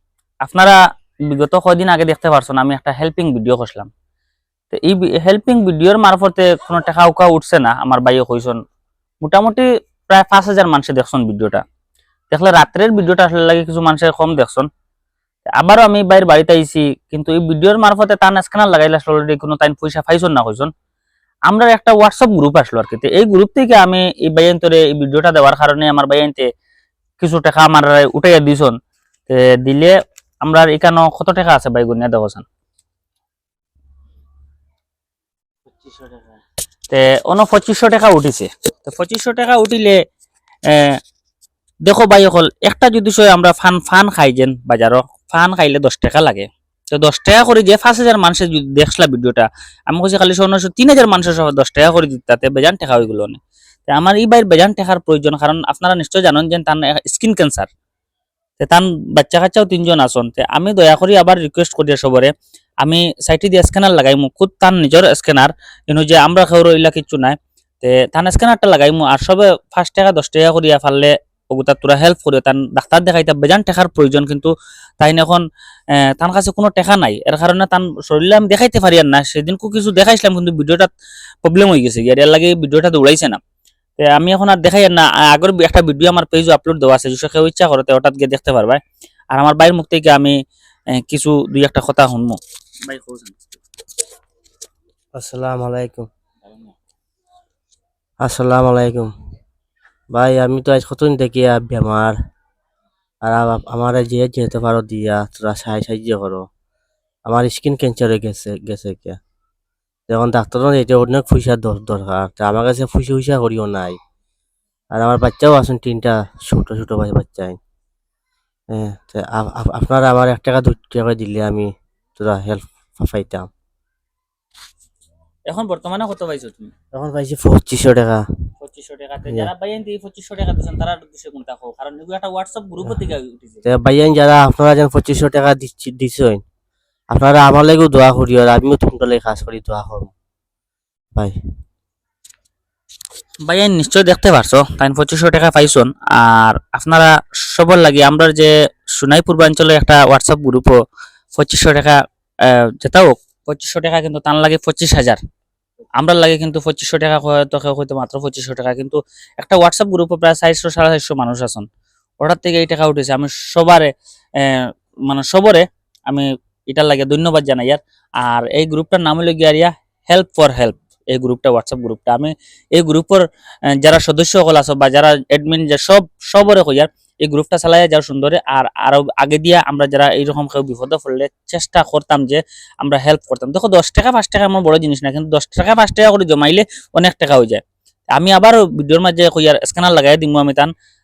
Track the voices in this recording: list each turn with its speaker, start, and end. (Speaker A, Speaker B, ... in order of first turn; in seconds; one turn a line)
Speaker A: 0.4-0.8
Speaker A: 1.3-3.9
Speaker A: 4.7-8.6
Speaker A: 9.2-11.6
Speaker A: 12.3-14.7
Speaker A: 15.6-20.7
Speaker A: 21.5-26.5
Speaker A: 27.2-28.8
Speaker A: 29.3-32.5
Speaker B: 35.7-36.4
Speaker A: 36.9-40.0
Speaker A: 40.7-41.0
Speaker A: 41.9-57.7
Speaker A: 58.6-62.3
Speaker A: 62.8-75.4
Speaker A: 76.0-80.9
Speaker A: 81.4-83.4
Speaker A: 84.0-88.8
Speaker A: 89.3-90.4
Speaker A: 91.0-93.4
Speaker B: 95.2-96.1
Speaker B: 98.2-99.1
Speaker B: 100.1-102.2
Speaker B: 103.2-106.5
Speaker B: 107.3-109.2
Speaker B: 110.1-114.0
Speaker B: 114.9-117.6
Speaker B: 118.7-123.5
Speaker A: 125.5-126.7
Speaker B: 126.9-128.2
Speaker A: 128.6-133.7
Speaker B: 133.7-136.4
Speaker B: 137.1-140.1
Speaker A: 143.5-150.8
Speaker A: 151.4-155.2
Speaker A: 156.0-161.7
Speaker A: 162.2-173.2
Speaker A: 173.8-187.6
Speaker A: 188.2-190.7